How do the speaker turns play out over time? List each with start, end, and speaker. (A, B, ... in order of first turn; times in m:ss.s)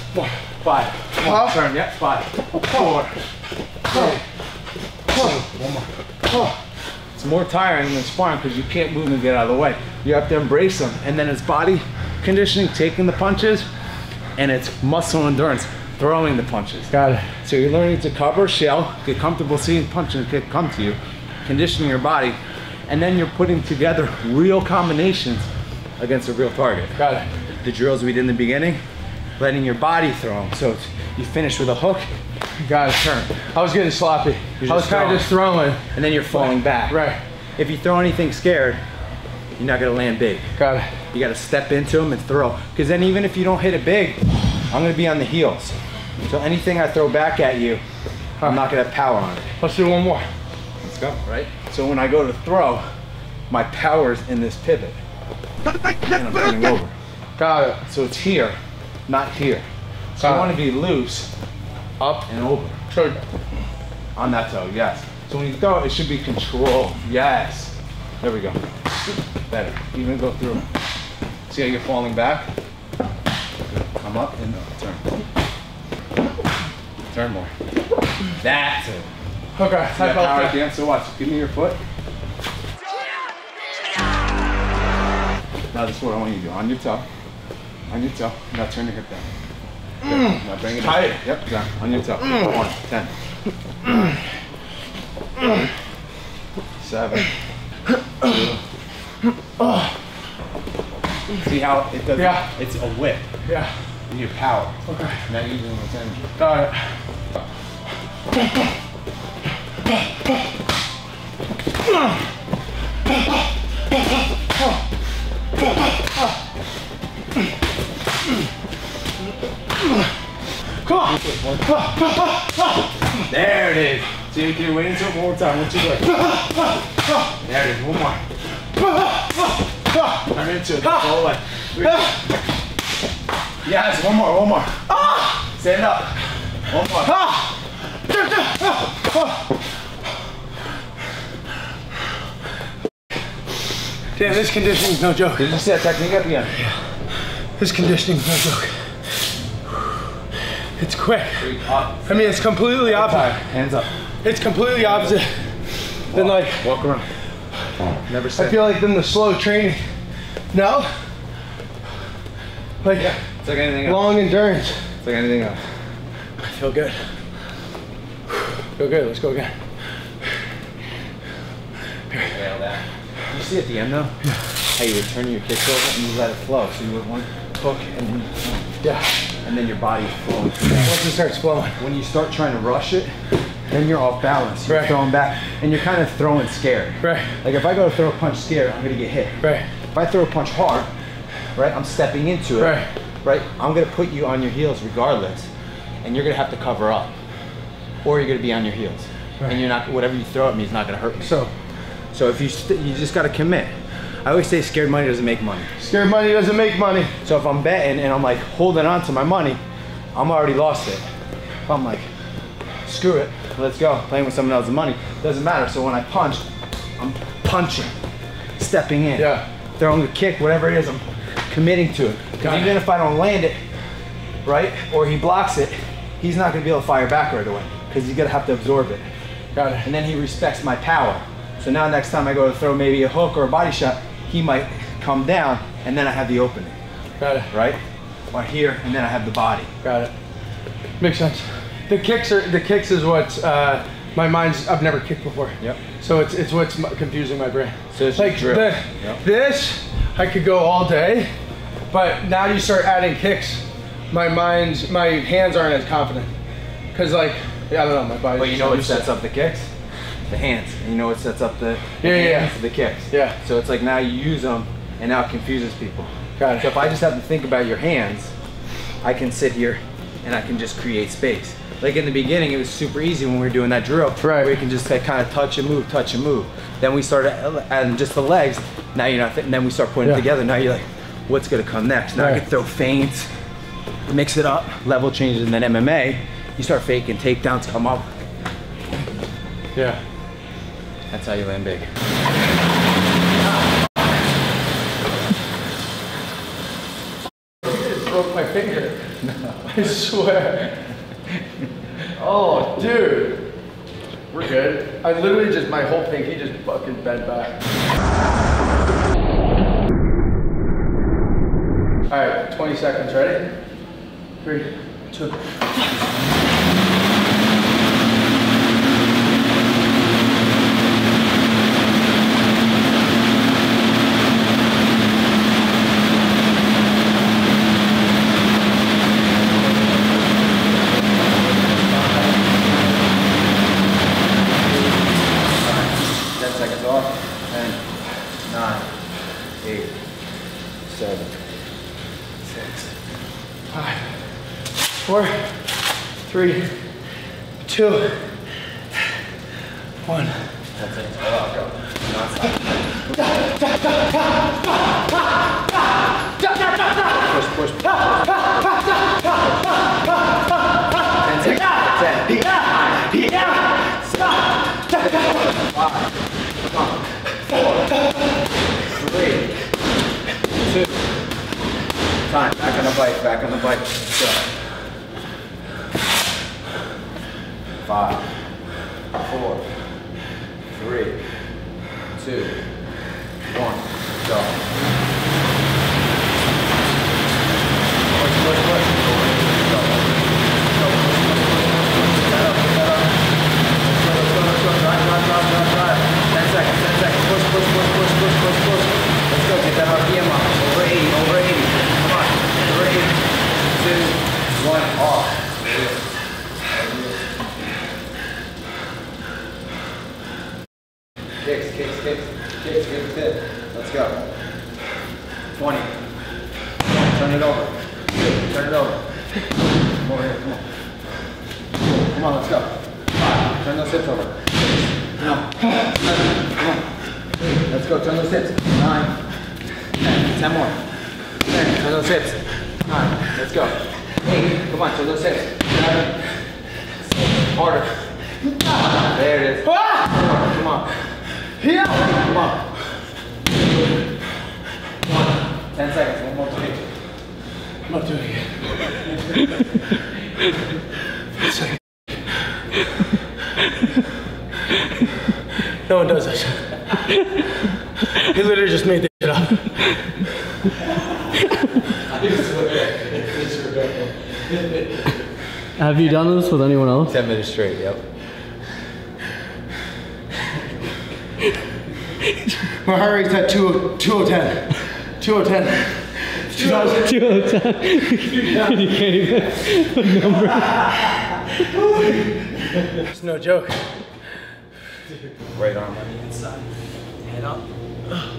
0:00.6-0:03.1 A
0:01.2-0:01.6 B
0:03.9-0:04.2 A
0:03.9-0:04.2 B
0:05.1-0:05.9 A
0:06.3-0:06.5 B
0:07.1-0:13.7 A
0:14.4-0:16.9 A
0:16.9-0:17.3 B
0:17.4-0:22.4 A
0:22.9-0:25.5 A
0:26.0-0:26.9 A
0:27.0-0:27.3 B
0:27.6-0:28.8 A
0:29.4-0:32.1 A
0:32.6-0:35.8 B
0:33.0-0:33.3 A
0:34.6-0:35.3 A
0:35.9-0:37.0 A
0:36.3-0:37.2 B
0:37.6-0:38.8 A
0:39.6-0:40.5 A
0:40.6-0:40.9 B
0:41.1-0:45.8 A
0:46.3-0:47.8 A
0:48.4-0:49.5 A
0:49.6-0:50.2 B
0:50.8-0:52.9 A
0:53.5-0:55.0 A
0:56.0-0:56.9 A
0:57.4-0:57.8 B
0:57.9-1:01.3 A
1:00.2-1:00.5 B
1:02.0-1:02.3 B
1:02.3-1:02.8 A
1:02.9-1:03.2 B
1:04.2-1:08.6 A
1:09.5-1:10.7 A
1:11.5-1:12.5 A
1:13.7-1:15.0 A
1:17.1-1:17.5 A
1:18.4-1:19.1 A
1:19.6-1:20.6 B
1:19.9-1:21.8 A
1:25.7-1:27.0 A
1:27.9-1:29.3 A
1:30.0-1:33.1 A
1:30.8-1:31.2 B
1:36.8-1:37.3 A
1:38.2-1:38.6 A
1:39.6-1:39.9 B
1:41.4-1:43.2 A
1:42.2-1:42.5 B
1:43.4-1:43.7 B
1:44.1-1:46.4 A
1:44.8-1:45.2 B
1:46.4-1:46.9 B
2:00.8-2:02.5 B
2:00.9-2:01.8 A
2:03.3-2:06.1 A
2:07.3-2:08.2 A
2:10.1-2:12.1 A
2:10.8-2:11.1 B
2:13.6-2:16.1 A
2:16.7-2:17.2 A
2:17.0-2:17.4 B
2:18.2-2:19.0 B
2:24.2-2:25.4 B
2:25.4-2:26.5 A
2:27.6-2:28.8 B
2:30.8-2:31.5 B
2:31.4-2:33.9 A
2:32.0-2:33.3 B
2:34.2-2:35.4 B
2:34.8-2:35.2 A
2:36.1-2:36.7 B
2:36.1-2:37.1 A
2:38.1-2:38.7 A
2:38.4-2:39.8 B
2:40.5-2:41.0 B
2:42.8-2:43.1 B
2:42.9-2:44.2 A
2:43.8-2:44.8 B
2:45.0-2:45.6 A
2:46.4-2:47.1 B
2:48.8-2:49.5 B
2:52.2-2:54.1 A
2:54.7-2:58.7 A
2:58.8-2:59.1 B
2:59.4-3:01.0 A
3:00.8-3:01.8 B
3:01.8-3:03.1 A
3:03.7-3:09.4 A
3:04.6-3:04.9 B
3:07.0-3:07.3 B
3:09.9-3:10.9 A
3:11.5-3:15.5 A
3:12.6-3:12.9 B
3:16.0-3:17.1 A
3:18.0-3:21.4 A
3:21.2-3:21.5 B
3:22.1-3:25.7 A
3:25.8-3:27.1 B
3:27.2-3:29.6 A
3:30.1-3:31.0 A
3:31.6-3:32.1 A
3:32.8-3:36.4 A
3:37.0-3:37.9 A
3:38.6-3:43.6 A
3:39.2-3:39.4 B
3:42.4-3:42.7 B
3:44.4-3:49.0 A
3:49.5-3:49.9 B
3:49.8-3:56.8 A
3:57.2-3:57.5 B
3:57.5-3:59.7 A
3:59.8-4:00.1 B
4:01.0-4:11.3 B
4:07.9-4:09.2 A
4:11.9-4:16.3 B
4:16.9-4:19.1 B
4:18.3-4:19.7 A
4:20.3-4:28.3 A
4:22.0-4:22.5 B
4:23.1-4:23.4 B
4:26.4-4:26.7 B
4:29.0-4:43.3 A
4:34.2-4:34.5 B
4:42.2-4:42.4 B
4:44.1-4:48.1 A
4:49.7-4:50.0 B
4:51.1-4:51.9 A
4:57.6-4:59.1 B
4:59.2-4:59.7 A
4:59.7-5:00.8 B
5:02.1-5:03.5 B
5:04.3-5:07.6 B
5:12.1-5:13.5 B
5:14.4-5:16.0 B
5:31.2-5:33.0 A
5:34.7-5:35.0 A
5:35.5-5:37.8 A
5:38.4-5:38.9 A
5:39.6-5:40.0 A
5:40.8-5:41.6 A
5:42.4-5:42.9 A
5:43.7-5:44.1 B
5:45.0-5:45.7 B
5:46.2-5:46.8 B
5:47.6-5:48.4 B
5:50.0-5:50.5 B
5:50.7-5:53.3 A
5:53.2-5:54.3 B
5:57.0-5:58.7 A
6:01.2-6:07.9 A
6:08.8-6:09.6 A
6:10.6-6:11.0 A
6:12.3-6:14.4 A
6:17.8-6:18.3 A
6:19.1-6:19.7 A
6:20.7-6:21.2 A
6:22.1-6:22.6 A
6:23.4-6:24.6 A
6:28.1-6:33.2 A
6:33.8-6:46.1 A
6:46.6-6:47.3 A
6:51.4-6:54.3 A
6:55.5-6:56.0 A
6:56.8-6:59.1 A
7:00.0-7:00.7 A
7:01.9-7:06.9 A
7:07.6-7:09.2 A
7:10.0-7:10.8 A
7:11.4-7:16.3 A
7:17.0-7:18.1 A
7:19.0-7:20.9 A
7:19.6-7:20.3 B
7:21.6-7:22.1 B
7:21.9-7:22.6 A
7:25.6-7:26.9 A
7:27.9-7:28.7 B
7:35.8-7:37.0 B
7:38.2-7:39.8 B
7:42.2-7:44.4 B
7:45.8-7:47.1 C
7:47.0-7:48.0 A
7:52.8-7:57.4 B
7:56.5-7:57.0 A
7:57.0-8:00.6 C
8:01.6-8:02.2 A
8:03.0-8:03.8 B
8:05.5-8:06.7 A
8:07.2-8:07.6 A